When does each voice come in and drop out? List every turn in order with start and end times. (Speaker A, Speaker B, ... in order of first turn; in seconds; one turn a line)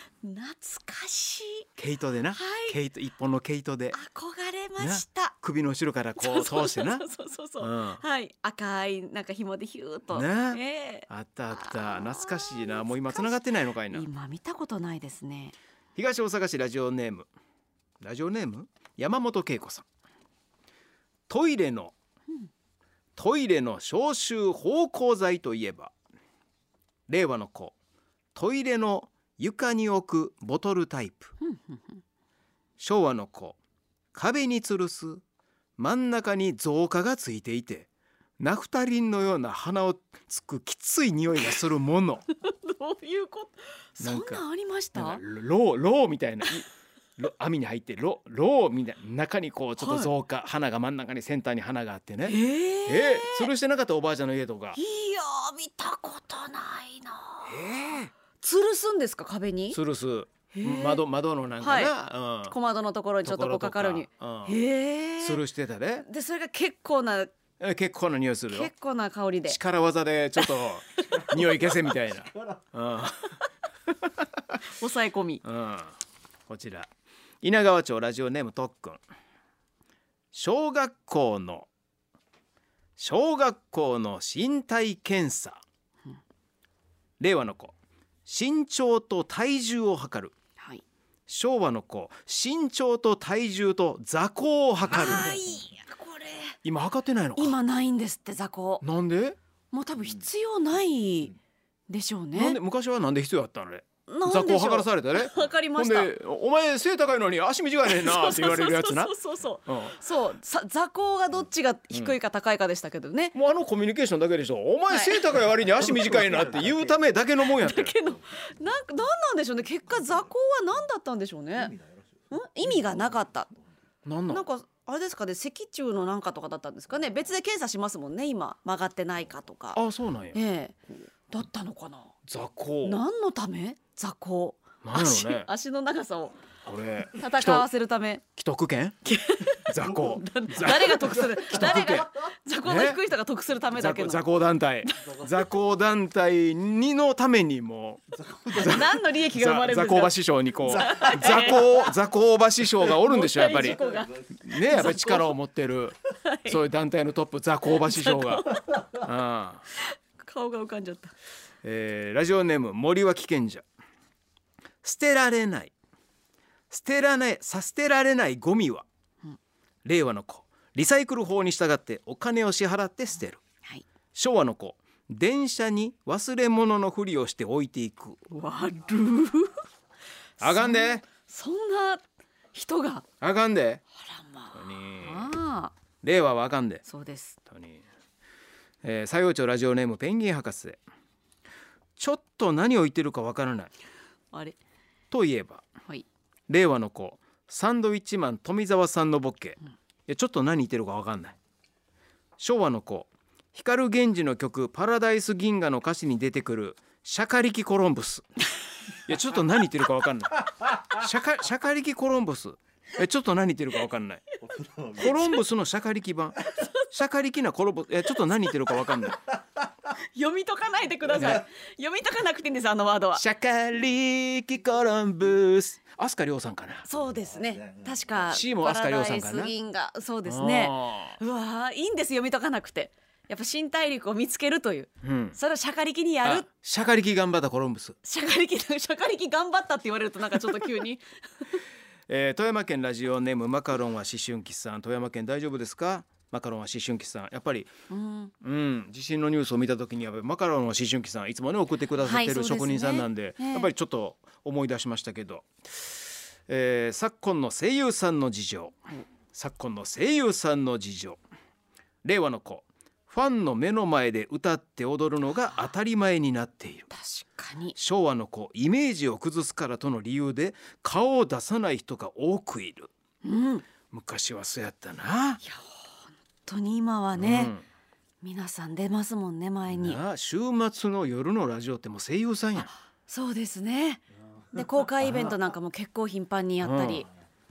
Speaker A: 0.2-1.7
Speaker B: 1.8-4.0
Speaker A: 2.3-2.8
Speaker A: 3.9-5.3
Speaker B: 4.8-7.0
Speaker A: 6.2-15.6
Speaker B: 7.6-8.0
Speaker B: 10.1-14.1
Speaker B: 15.9-17.3
Speaker B: 18.0-19.9
Speaker B: 21.3-21.9
Speaker B: 23.1-25.9
Speaker B: 27.1-27.7
Speaker B: 28.3-31.3
Speaker A: 31.4-32.0
Speaker B: 32.8-33.6
Speaker B: 34.1-35.2
Speaker B: 35.8-37.9
Speaker B: 38.4-42.2
Speaker A: 42.4-45.2
Speaker B: 44.0-54.8
Speaker A: 49.8-50.1
Speaker A: 52.2-53.5
Speaker A: 54.8-57.6
Speaker B: 57.5-58.1
Speaker A: 58.4-59.8
Speaker B: 59.7-62.5
Speaker A: 60.5-61.0
Speaker A: 61.6-65.4
Speaker B: 63.2-64.6
Speaker B: 65.2-66.0
Speaker A: 66.0-67.3
Speaker B: 67.6-68.7
Speaker A: 68.5-69.6
Speaker B: 69.5-73.4
Speaker A: 74.7-75.4
Speaker B: 75.4-75.9
Speaker B: 76.5-76.9
Speaker B: 77.4-79.0
Speaker B: 80.3-81.7
Speaker B: 83.0-85.6
Speaker B: 87.2-87.7
Speaker B: 88.2-90.3
Speaker B: 91.3-95.4
Speaker A: 94.9-96.6
Speaker B: 96.6-97.6
Speaker A: 97.3-98.8
Speaker B: 98.8-99.4
Speaker A: 99.7-101.3
Speaker A: 101.9-102.6
Speaker B: 102.3-109.1
Speaker A: 104.1-106.1
Speaker A: 107.8-113.3
Speaker B: 109.7-110.0
Speaker B: 113.3-118.0
Speaker A: 114.9-115.2
Speaker A: 117.4-123.5
Speaker B: 124.0-124.4
Speaker A: 124.3-129.8
Speaker B: 129.7-130.4
Speaker A: 130.3-132.1
Speaker B: 132.3-133.0
Speaker A: 132.8-136.4
Speaker B: 134.8-135.5
Speaker B: 136.7-137.7
Speaker A: 137.2-138.2
Speaker B: 138.3-139.0
Speaker A: 139.0-144.2
Speaker B: 139.6-142.1
Speaker B: 142.6-143.0
Speaker B: 143.7-153.8
Speaker A: 148.5-150.2
Speaker A: 150.7-151.6
Speaker A: 153.0-155.3
Speaker B: 154.4-159.6
Speaker A: 156.2-156.6
Speaker A: 157.8-158.7
Speaker A: 159.8-161.1
Speaker B: 161.6-163.6
Speaker B: 164.8-165.7
Speaker B: 166.7-168.8
Speaker B: 169.8-173.4
Speaker B: 174.1-178.2
Speaker A: 178.3-179.6
Speaker A: 180.4-183.1
Speaker B: 180.4-181.1
Speaker B: 183.2-183.8
Speaker A: 184.0-185.7
Speaker B: 184.5-185.3
Speaker B: 186.0-186.8
Speaker A: 186.8-187.4
Speaker B: 187.5-187.8
Speaker B: 188.8-190.8
Speaker B: 192.0-193.7
Speaker A: 194.3-194.6
Speaker B: 195.1-195.6
Speaker B: 196.5-201.3
Speaker B: 202.4-208.2
Speaker B: 209.0-214.2
Speaker B: 214.9-219.2
Speaker A: 219.9-223.2
Speaker B: 221.2-221.4
Speaker B: 223.2-226.8
Speaker A: 226.8-236.5
Speaker B: 228.3-229.5
Speaker B: 230.2-231.2
Speaker B: 235.0-235.4
Speaker B: 236.2-238.0
Speaker A: 238.0-241.6
Speaker B: 242.1-247.7
Speaker A: 247.9-248.3
Speaker B: 248.4-258.8
Speaker A: 252.0-253.7
Speaker B: 259.3-261.2
Speaker B: 262.0-266.9
Speaker A: 266.9-267.8
Speaker B: 267.7-272.9
Speaker A: 273.2-273.6
Speaker B: 273.9-275.4
Speaker A: 275.4-275.9
Speaker A: 276.4-277.5
Speaker B: 277.2-277.6
Speaker A: 278.2-280.0
Speaker B: 279.7-282.7
Speaker A: 282.6-287.1
Speaker B: 286.6-287.1